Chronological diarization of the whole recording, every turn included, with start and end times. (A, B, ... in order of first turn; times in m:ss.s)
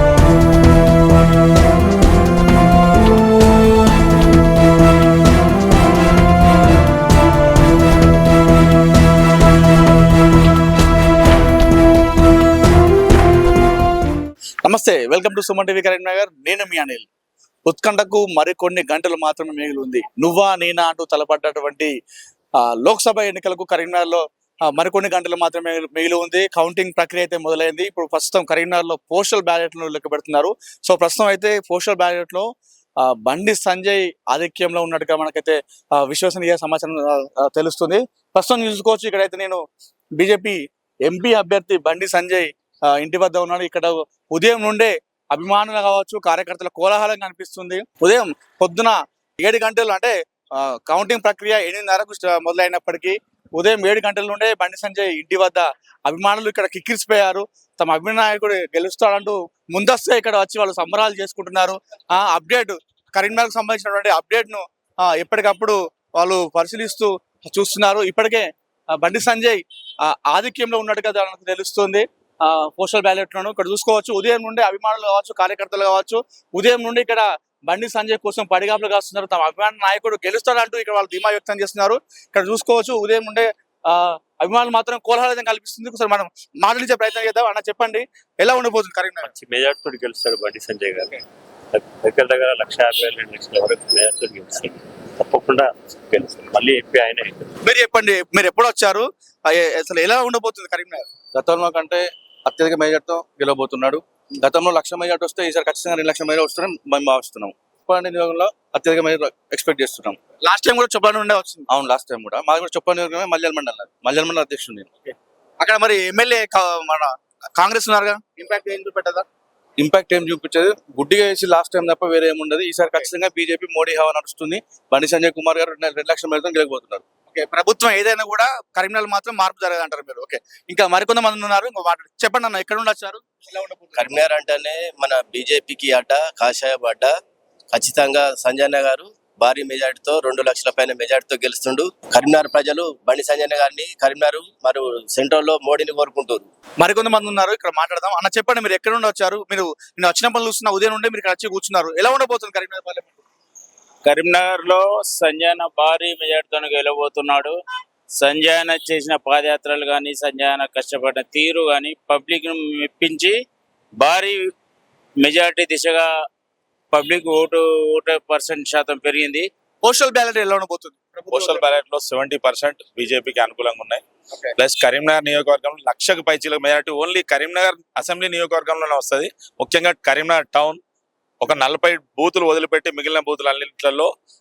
0:14.6-0:17.1 A
0:17.6-0:21.9 A
0:22.6-0:32.5 A
0:33.0-0:39.6 A
0:40.2-1:29.3 A
1:29.2-1:31.2 B
1:31.7-1:37.5 B
1:37.6-1:41.0 A
1:41.3-1:50.2 C
1:50.4-1:51.6 A
1:51.7-1:55.1 C
1:55.6-1:59.2 A
1:59.8-2:07.0 C
2:07.3-2:14.1 A
2:13.9-2:17.1 D
2:17.7-2:26.5 D
2:26.8-2:33.2 A
2:34.0-2:37.5 E
2:38.2-2:43.3 E
2:44.0-2:44.5 E
2:45.2-2:46.1 E
2:46.9-2:49.4 E
2:49.8-2:51.7 A
2:51.3-2:54.0 F
2:54.6-3:00.8 F
3:01.4-3:04.1 F